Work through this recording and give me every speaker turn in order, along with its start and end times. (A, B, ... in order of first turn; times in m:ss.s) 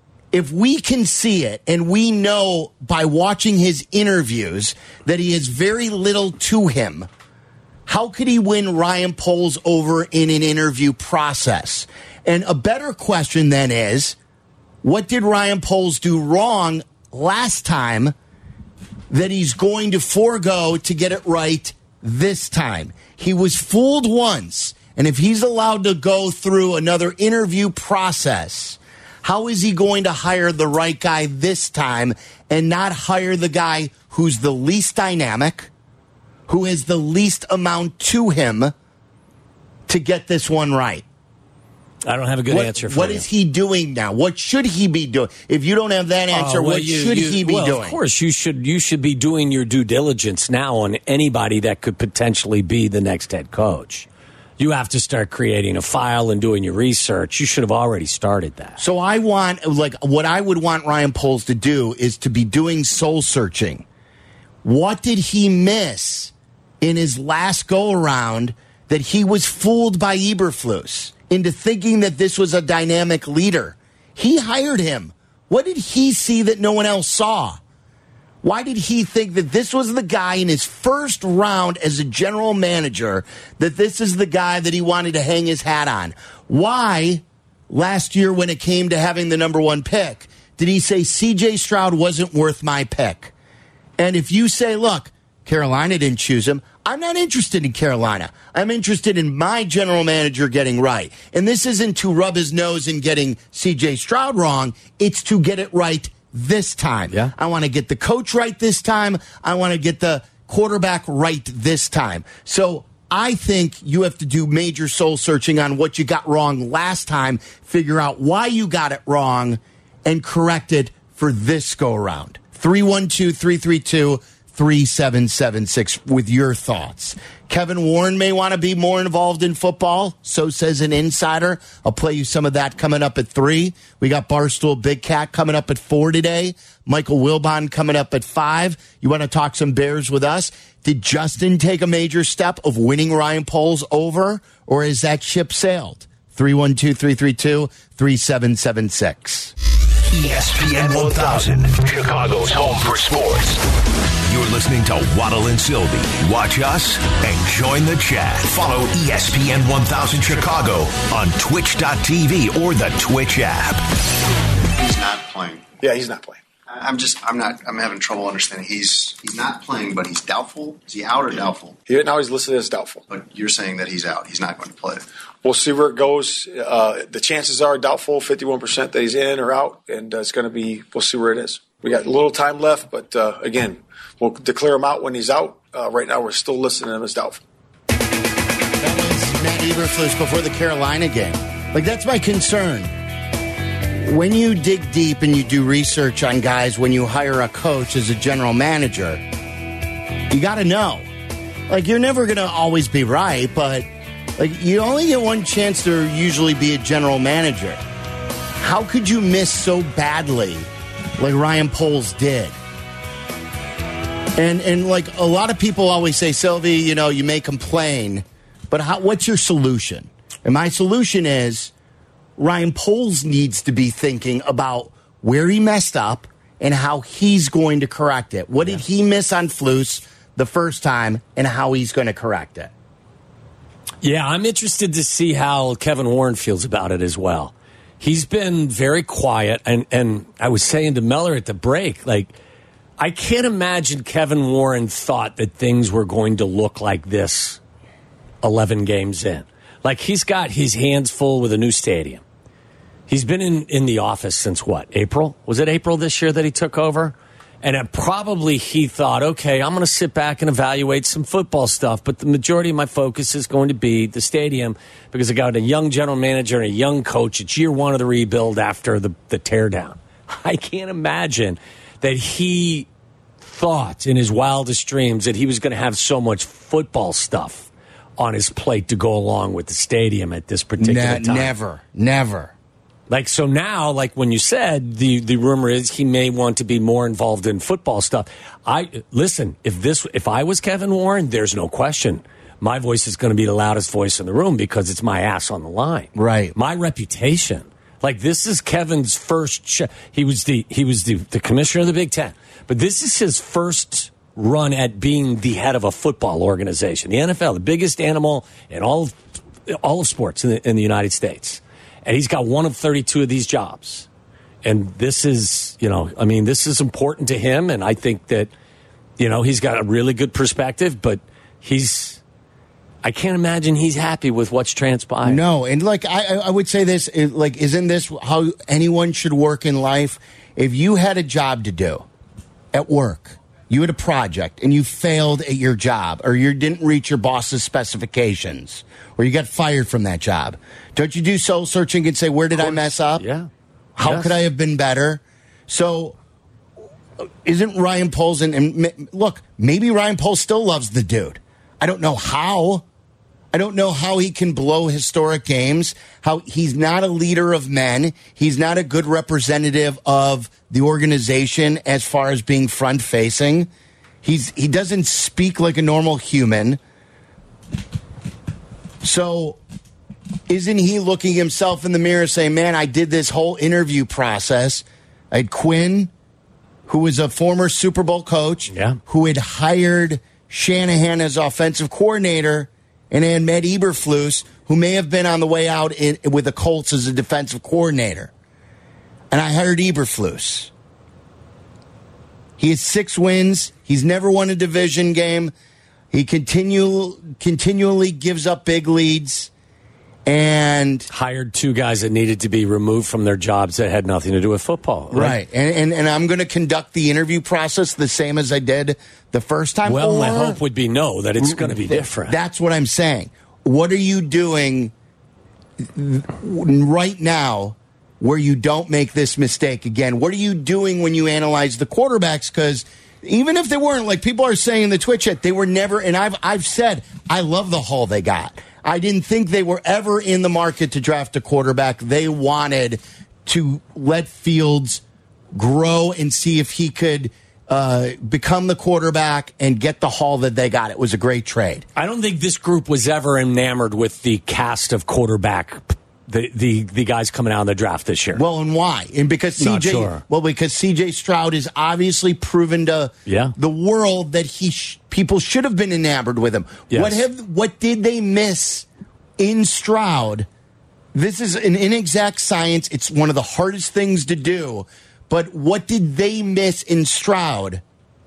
0:00.3-0:07.1 A
0:07.9-0:14.2 A
0:14.8-0:18.1 A
0:19.1-0:35.7 A
0:36.5-0:38.7 A
0:39.9-0:41.0 A
0:42.0-0:43.3 B
0:42.5-0:48.0 A
0:46.3-0:54.1 B
0:54.6-0:58.8 B
0:58.8-1:03.8 A
1:04.6-1:17.6 A
1:18.4-1:33.3 A
1:34.0-2:29.5 A
2:30.0-2:33.6 C
2:34.3-2:43.8 C
2:44.8-2:45.7 D
2:45.8-2:46.4 E
2:46.7-2:51.8 D
2:51.9-2:53.0 E
2:53.1-2:55.0 D
2:55.4-3:07.4 E
3:08.8-3:12.9 A
3:14.0-3:19.2 A
3:20.3-3:21.1 A
3:21.7-3:27.8 A
3:28.6-3:32.6 A
3:34.4-3:41.7 A
3:42.4-3:52.7 A
3:54.0-4:02.4 B
4:03.0-4:07.6 B
4:08.4-4:12.2 B
4:13.1-4:32.9 B
4:33.4-4:41.5 B
4:40.8-4:42.5 A
4:43.1-5:14.1 B
4:56.2-4:56.5 A
5:14.6-5:18.5 B
5:19.2-5:22.2 B
5:23.0-5:25.4 B
5:25.2-5:32.1 A
5:32.7-5:43.2 A
5:42.6-5:43.5 B
5:44.0-5:46.2 A
5:44.0-5:44.4 B
5:47.4-5:52.8 A
5:53.5-6:03.7 A
6:04.2-6:06.8 A
6:09.0-6:09.6 A
6:10.5-6:16.1 A
6:16.9-6:28.3 A
6:18.7-6:19.0 B
6:29.3-6:30.7 A
6:32.6-6:35.5 A
6:36.1-6:39.5 A
6:40.3-6:41.1 A
6:41.1-6:45.4 B
6:45.1-6:50.6 A
6:49.9-6:52.4 B
6:51.4-6:54.9 A
6:55.9-7:15.0 A
7:15.6-7:21.9 A
7:22.0-7:28.4 B
7:28.4-7:38.9 A
7:29.6-7:30.2 B
7:33.3-7:33.6 B
7:36.9-7:37.2 B
7:39.4-7:40.5 A
7:41.1-7:47.8 A